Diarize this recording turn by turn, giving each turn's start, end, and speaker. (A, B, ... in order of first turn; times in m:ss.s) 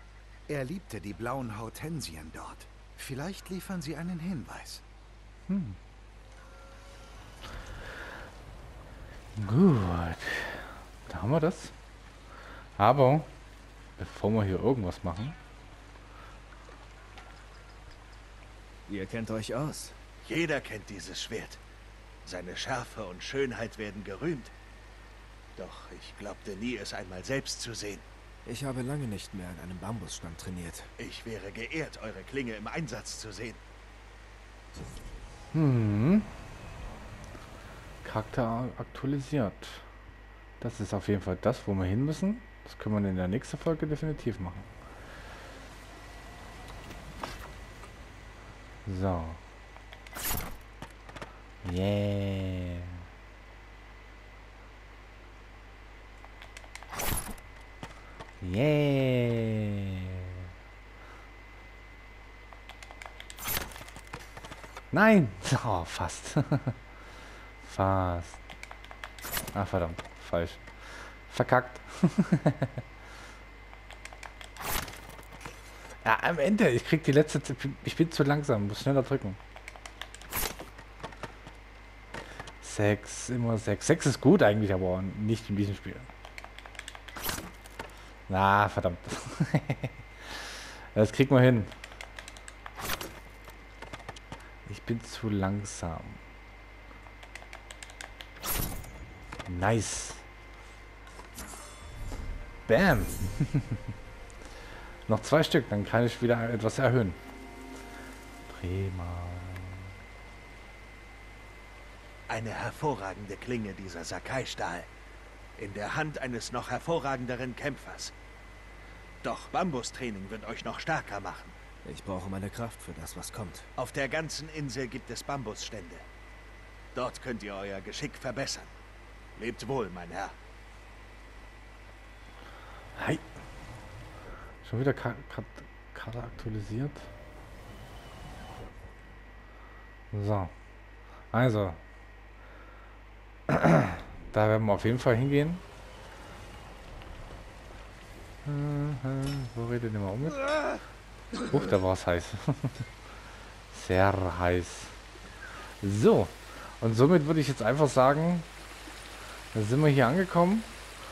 0:00.5-0:04.8 A
0:05.5-0:05.8 B
0:09.3-0:11.7 B
0:12.8-0:13.3 B
0:14.0-0:15.4 B
0:18.9-0:20.0 C
0:20.2-0:21.6 D
0:22.2-0:24.5 D
0:25.6-0:28.0 D
0:28.4-0:30.9 C
0:31.0-0:33.6 D
0:35.5-0:36.3 B
0:38.0-0:39.9 B
0:40.6-0:44.7 B
0:48.8-0:49.4 B
0:51.6-0:53.0 B
0:58.4-1:00.4 B
1:04.9-1:06.8 B
1:07.6-1:08.4 B
1:09.5-1:12.8 B
1:16.0-1:19.4 B
1:22.6-1:26.1 B
1:28.3-1:31.7 B
1:34.6-1:36.2 B
1:39.4-1:40.2 B
1:42.6-1:43.8 B
1:45.1-1:47.2 B
1:48.5-1:49.9 B
1:52.3-1:54.9 D
1:55.6-1:58.1 D
1:59.2-2:01.6 D
2:01.8-2:03.7 C
2:03.8-2:06.0 D
2:06.9-2:08.7 D
2:09.4-2:10.3 D
2:12.9-2:13.2 B
2:14.6-2:17.1 B
2:20.1-2:20.5 B
2:21.3-2:21.8 B
2:23.5-2:25.6 B
2:28.4-2:30.4 B
2:31.4-2:32.8 B
2:33.7-2:34.9 B
2:35.8-2:38.5 B
2:39.5-2:40.7 B